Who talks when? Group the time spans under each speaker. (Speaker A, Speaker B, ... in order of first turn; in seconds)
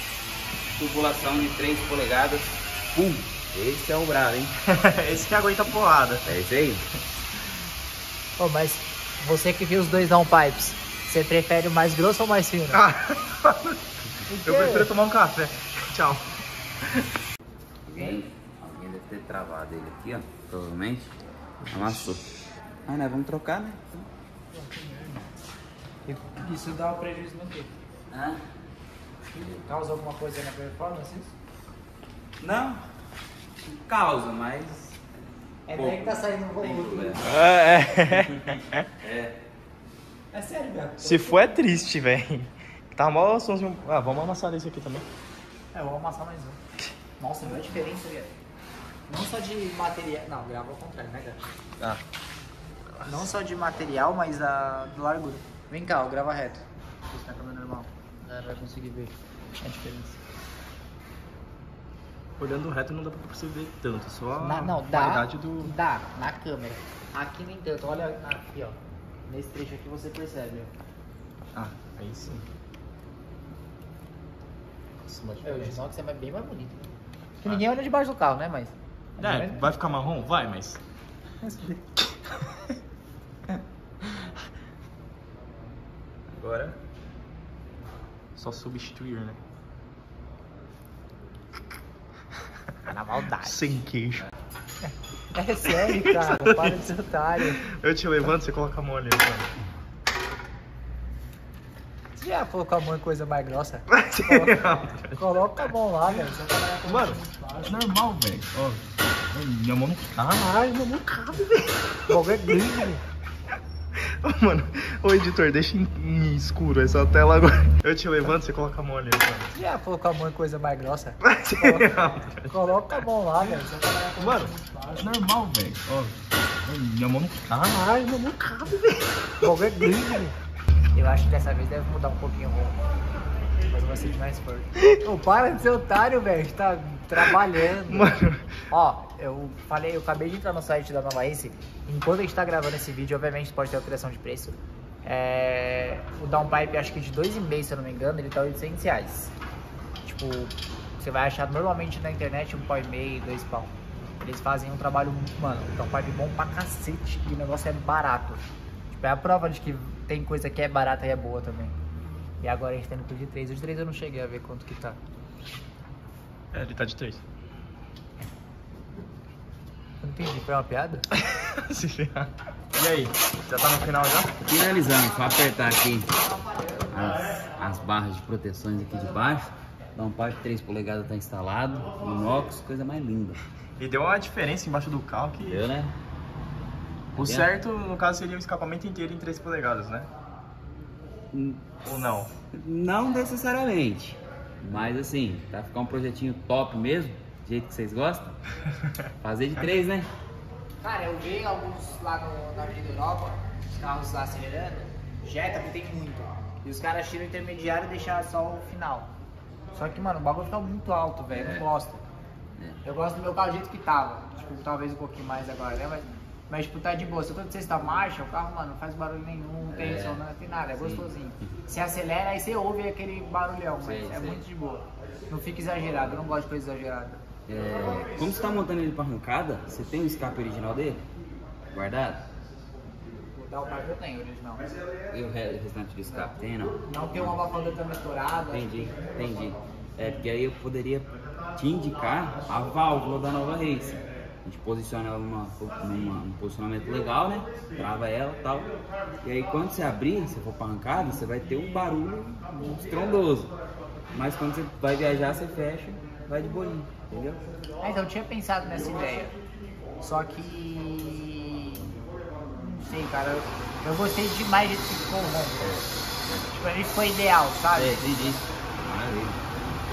Speaker A: 0.8-4.5, 6.2-6.8, 17.9-21.1, 21.7-22.3, 22.9-24.1, 28.1-28.4, 29.4-29.7, 32.4-32.8, 33.6-35.0, 35.7-37.3, 38.1-39.4, 174.5-176.1, 176.9-183.4, 185.4-185.9, 187.2-187.6, 191.3-191.8, 192.5-198.3, 199.2-200.1, 211.3-211.7, 219.7-221.5, 223.8-224.4, 227.5-231.0, 231.7-232.2, 235.1-237.4, 238.5-248.7, 249.2-253.5, 254.1-257.4, 265.6-266.6, 267.7-269.4
Speaker B: 4.6-6.3, 12.7-13.8, 14.4-16.3, 37.2-38.8, 41.0-45.0, 62.4-65.7, 71.5-72.4, 75.0-75.8, 79.2-80.8, 86.3-86.8, 88.3-89.4, 93.4-94.3, 95.7-99.5, 103.9-105.3, 106.8-112.7, 114.0-119.5, 121.2-123.0, 124.2-129.6, 137.8-138.5, 166.5-167.2, 171.1-174.3, 183.8-185.7, 187.1-190.1, 191.8-192.3
Speaker C: 8.4-12.8, 14.3-14.9, 24.5-25.2, 26.1-27.7, 29.3-31.3, 35.7-37.2, 40.3-41.6, 45.7-46.6, 47.2-48.3, 49.1-51.4, 53.0-60.2, 64.4-70.7, 75.4-79.7, 81.4-81.8, 92.9-93.8, 94.8-97.6, 102.2-107.7, 112.1-113.0, 119.5-125.0, 129.4-130.3, 130.9-132.8, 133.7-138.2, 138.7-149.3, 150.0-161.7, 162.4-165.0, 170.0-171.1, 176.5-176.8, 200.8-209.1, 209.7-212.0, 212.8-227.2, 233.3-234.7, 236.8-239.1, 257.8-259.4, 260.0-261.9, 262.5-265.8, 266.5-268.4